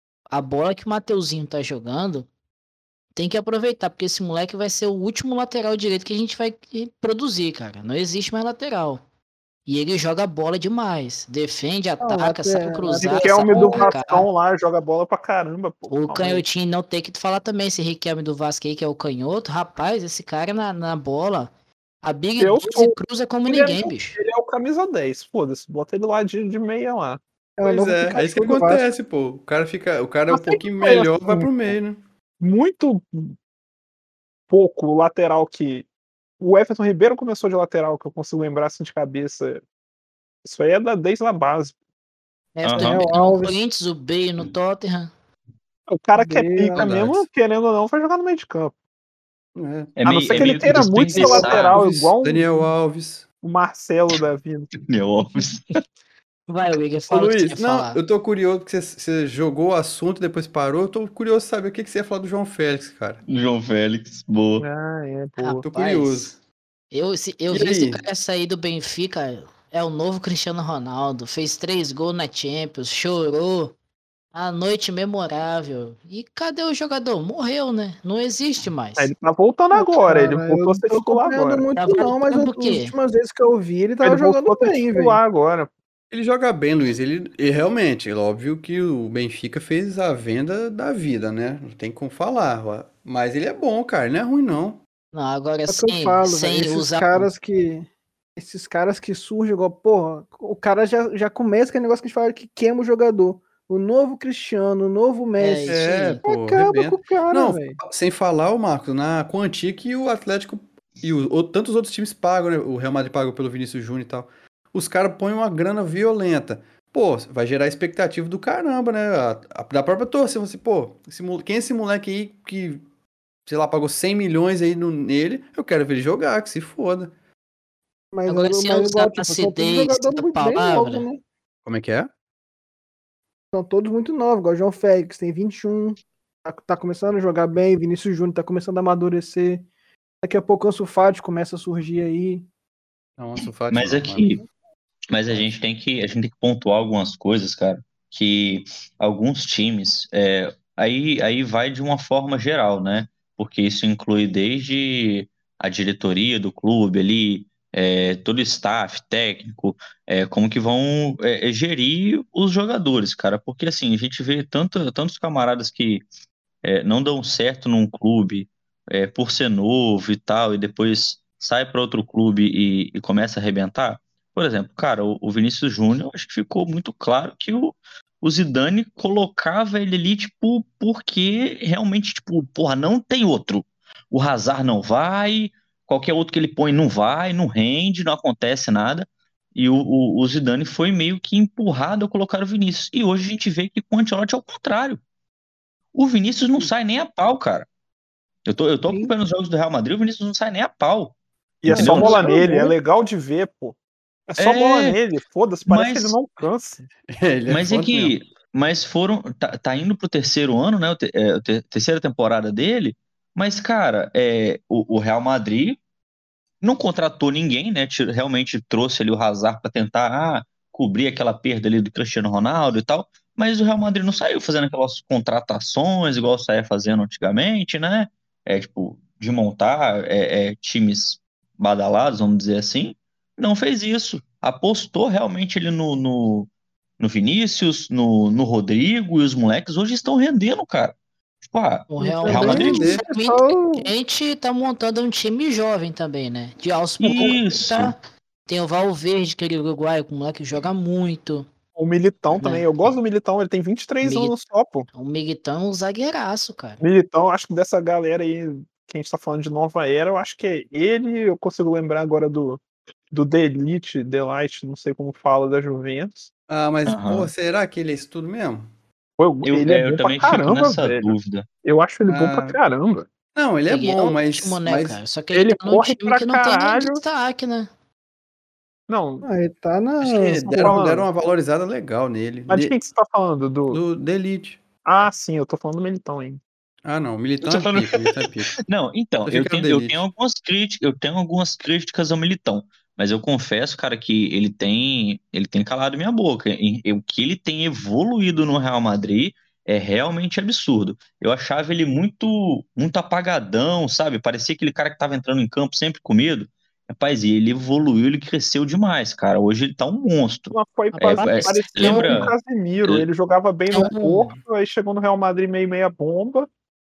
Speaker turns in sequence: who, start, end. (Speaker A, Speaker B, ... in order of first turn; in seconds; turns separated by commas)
Speaker A: 0.3-2.3, Speaker A: 3.1-9.0, Speaker A: 9.7-14.3, Speaker B: 12.0-13.9, Speaker C: 13.0-16.4, Speaker A: 15.9-21.5, Speaker A: 22.0-24.2, Speaker C: 22.4-27.2, Speaker B: 27.6-28.8, Speaker D: 27.6-32.0, Speaker C: 30.3-31.7, Speaker C: 32.4-33.4, Speaker C: 34.5-35.9, Speaker C: 36.4-39.6, Speaker C: 40.4-41.8, Speaker A: 42.6-45.1, Speaker E: 42.6-43.1, Speaker B: 42.8-43.6, Speaker C: 45.9-48.7, Speaker B: 46.2-47.0, Speaker D: 46.8-47.3, Speaker D: 49.6-50.6, Speaker E: 50.0-51.8, Speaker C: 50.0-52.5, Speaker D: 51.2-53.3, Speaker C: 53.4-54.7, Speaker E: 54.8-55.8, Speaker A: 56.5-58.0, Speaker D: 57.1-63.2, Speaker E: 63.3-64.7, Speaker C: 64.6-65.6, Speaker A: 65.4-66.3, Speaker D: 65.6-66.4, Speaker A: 66.9-73.8, Speaker D: 67.5-68.0, Speaker A: 74.3-79.1, Speaker C: 79.0-81.6, Speaker B: 79.7-85.2, Speaker A: 81.8-83.0, Speaker C: 84.0-85.7, Speaker D: 86.1-94.8, Speaker A: 95.1-97.3, Speaker B: 95.7-107.8, Speaker A: 105.4-106.2, Speaker D: 105.7-122.8, Speaker D: 123.5-127.1, Speaker B: 128.1-131.2, Speaker A: 128.3-131.1, Speaker D: 131.7-132.1, Speaker B: 133.5-139.7, Speaker B: 140.2-142.5, Speaker D: 143.2-144.3, Speaker E: 143.7-144.4, Speaker E: 145.1-166.0, Speaker D: 145.3-145.6, Speaker E: 166.6-195.0, Speaker E: 195.9-197.7, Speaker E: 198.5-201.2, Speaker B: 198.9-199.1, Speaker C: 201.6-203.8, Speaker B: 201.7-202.7, Speaker E: 201.7-202.3, Speaker C: 204.3-206.9, Speaker E: 204.4-205.0, Speaker E: 205.7-206.2, Speaker D: 207.1-208.2, Speaker E: 207.5-215.8, Speaker E: 216.6-242.8, Speaker A: 241.9-251.5, Speaker B: 242.0-243.9, Speaker D: 242.3-243.0, Speaker E: 247.0-247.9, Speaker C: 251.8-254.9, Speaker A: 252.3-252.7, Speaker A: 254.0-254.3, Speaker A: 254.9-256.8, Speaker C: 256.8-266.3, Speaker D: 266.5-268.7, Speaker E: 266.9-267.3, Speaker C: 269.2-273.1, Speaker E: 269.4-271.5, Speaker D: 272.1-272.6, Speaker D: 273.3-275.0, Speaker A: 273.7-277.7, Speaker C: 275.3-277.0, Speaker C: 278.9-279.3, Speaker B: 279.3-280.8, Speaker D: 280.0-282.7, Speaker C: 280.5-281.1, Speaker C: 282.5-283.8, Speaker D: 283.7-284.6, Speaker C: 284.9-286.4, Speaker D: 286.8-288.6, Speaker E: 287.4-312.3, Speaker D: 289.3-290.0, Speaker C: 310.5-316.5, Speaker A: 310.9-312.3, Speaker A: 313.7-314.4